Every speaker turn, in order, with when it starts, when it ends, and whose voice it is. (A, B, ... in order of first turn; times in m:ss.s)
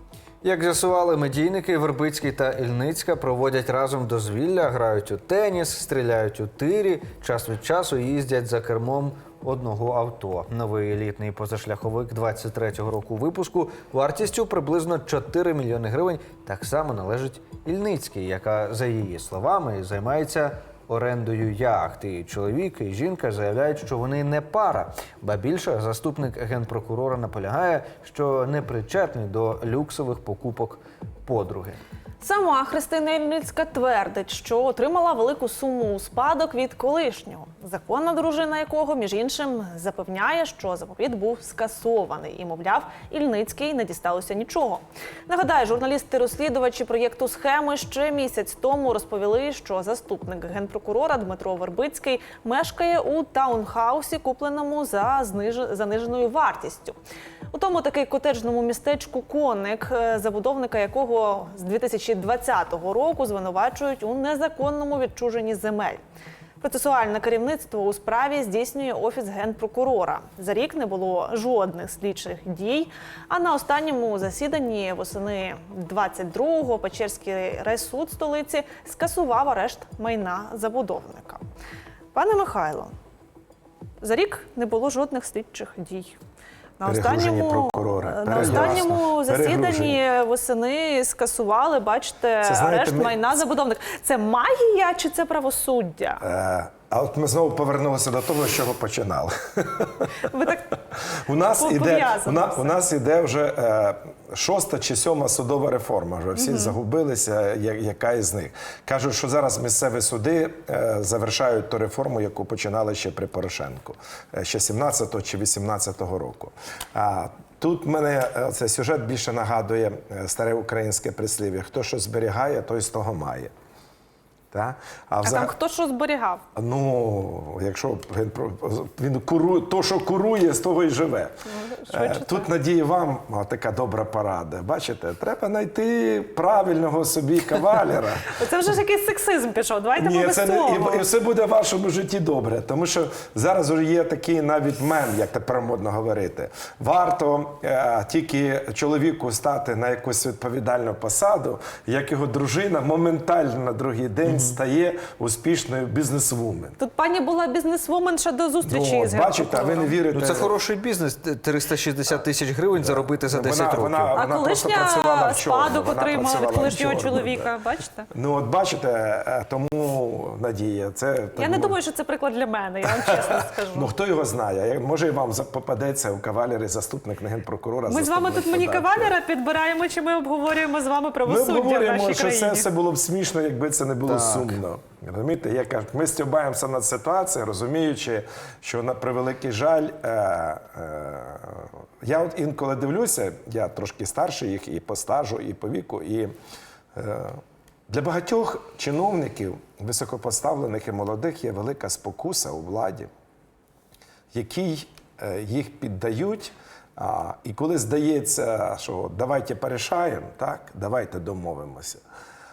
0:00.4-0:31.8 A
0:32.2-0:57.0 B
0:57.5-1:06.0 B
1:06.6-1:21.4 B
1:22.1-1:22.9 B
1:24.0-1:26.2 B
1:26.8-1:36.2 B
1:26.8-1:30.0 C
1:28.3-1:28.8 A
1:32.4-1:33.2 C
1:36.2-1:40.3 C
1:40.2-1:40.8 B
1:41.2-2:03.5 C
1:41.5-1:42.8 B
1:46.4-1:46.8 B
2:04.5-2:05.5 C
2:05.2-2:06.4 B
2:06.6-2:11.3 C
2:11.5-2:12.5 B
2:11.9-2:18.4 C
2:18.3-2:21.1 B
2:20.0-2:36.8 C
2:34.2-2:34.6 A
2:36.8-2:40.0 B
2:38.6-2:40.5 C
2:40.1-2:44.2 A
2:42.7-2:47.5 C
2:44.1-2:48.1 B
2:48.1-2:51.8 C
2:51.4-2:53.9 B
2:52.8-2:59.2 C
2:57.9-3:02.7 B
3:01.2-3:16.3 C
3:04.0-3:04.6 A
3:16.9-3:23.1 C
3:24.3-3:32.0 C